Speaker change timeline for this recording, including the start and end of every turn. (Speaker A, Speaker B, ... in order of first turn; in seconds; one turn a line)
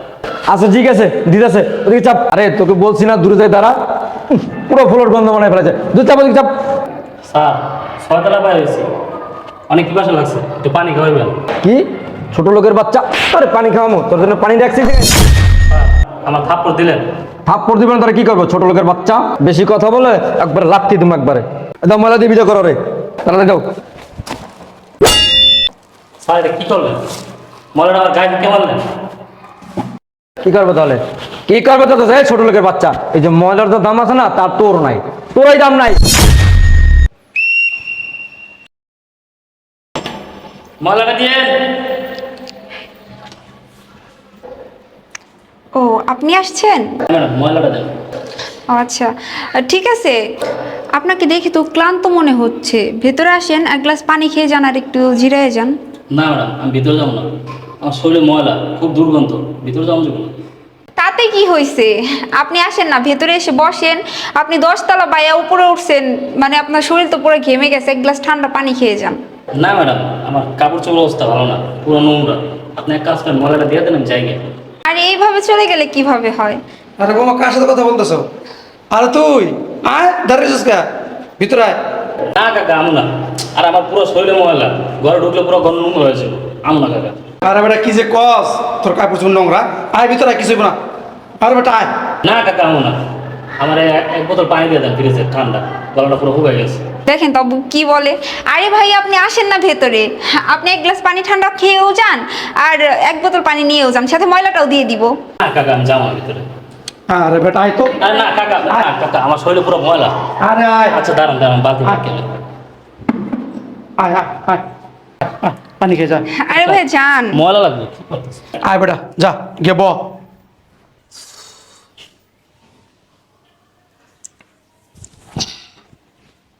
Speaker A: 0.5-3.8
Speaker A: 4.3-6.5
Speaker B: 7.2-8.9
Speaker B: 9.7-11.4
Speaker A: 11.6-15.2
Speaker B: 15.7-17.1
Speaker A: 17.5-23.6
Speaker B: 26.2-27.0
Speaker B: 27.7-28.8
Speaker A: 30.4-36.0
Speaker B: 40.8-41.8
Speaker C: 45.8-47.0
Speaker B: 47.1-47.9
Speaker C: 48.7-50.2
Speaker C: 51.0-55.7
Speaker B: 56.1-57.3
Speaker B: 57.8-60.3
Speaker C: 61.0-69.2
Speaker B: 69.6-74.5
Speaker C: 74.9-76.6
Speaker D: 77.0-78.3
Speaker D: 78.9-80.8
Speaker D: 81.4-81.8
Speaker B: 82.3-87.2
Speaker D: 87.4-90.8
Speaker D: 91.4-91.9
Speaker B: 92.2-93.0
Speaker B: 93.6-96.9
Speaker C: 97.0-105.2
Speaker B: 105.4-106.5
Speaker D: 107.1-108.0
Speaker B: 108.0-110.1
Speaker D: 110.4-111.0
Speaker B: 110.9-112.3
Speaker D: 114.0-114.6
Speaker D: 115.2-116.3
Speaker C: 116.4-117.4
Speaker B: 116.5-116.8
Speaker B: 117.3-118.4
Speaker D: 118.6-120.1